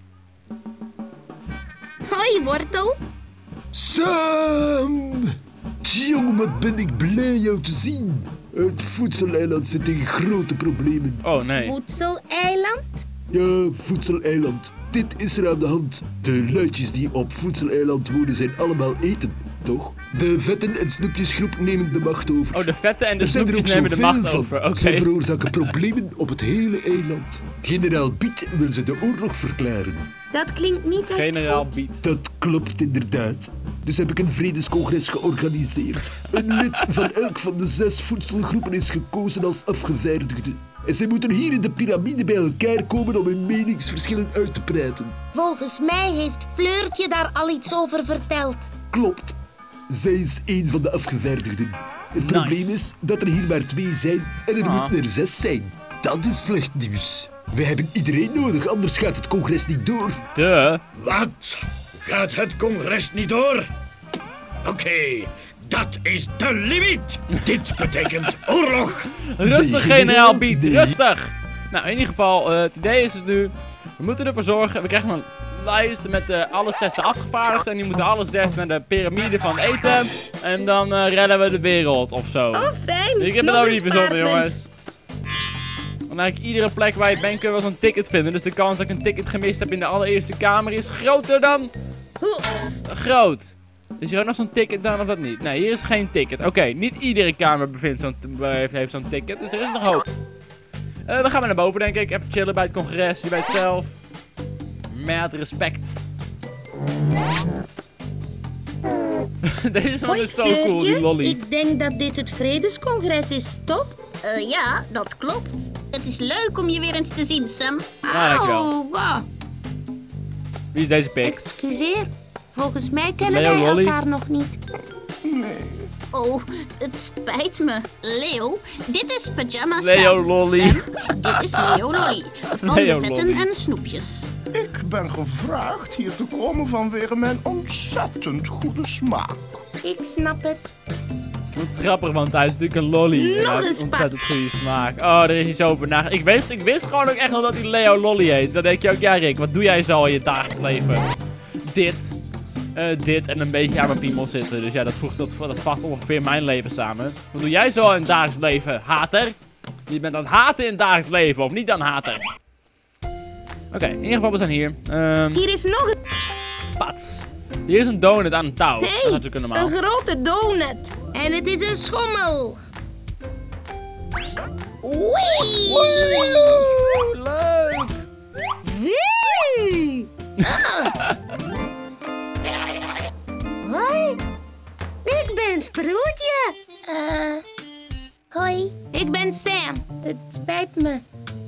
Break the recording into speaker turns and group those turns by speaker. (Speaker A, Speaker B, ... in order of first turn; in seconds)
Speaker A: 2.0-3.0, 11.6-13.1, 30.3-31.7, 45.3-48.7, 82.5-84.5, 92.2-92.7, 110.1-114.0, 118.1-119.3, 121.2-124.6, 139.8-140.7, 143.1-144.1, 165.3-166.0, 168.8-172.6, 174.8-176.8, 178.7-179.8, 180.4-180.9, 183.6-184.2, 185.1-187.4, 188.3-191.1
Speaker B: 3.7-5.3, 5.8-11.2, 13.3-22.6, 23.2-30.1, 32.0-45.1, 48.9-49.4, 49.9-60.2, 69.4-71.0
Speaker C: 11.2-11.8, 22.5-25.1, 31.1-32.0, 52.2-52.8, 54.6-55.0, 60.4-60.8, 69.4-84.7, 86.1-91.7, 92.8-100.0, 101.1-104.0, 104.9-106.0, 109.5-111.4, 118.1-118.7, 120.7-121.4, 123.2-124.0, 129.8-133.5, 141.6-151.1, 151.6-152.2, 152.8-159.4, 159.9-162.2, 163.7-165.4, 166.8-169.7, 175.7-178.1, 180.4-181.1
Speaker D: 61.0-63.7, 64.6-69.2
Speaker E: 114.2-118.0, 126.1-134.3
Speaker F: 125.2-125.9, 134.5-139.6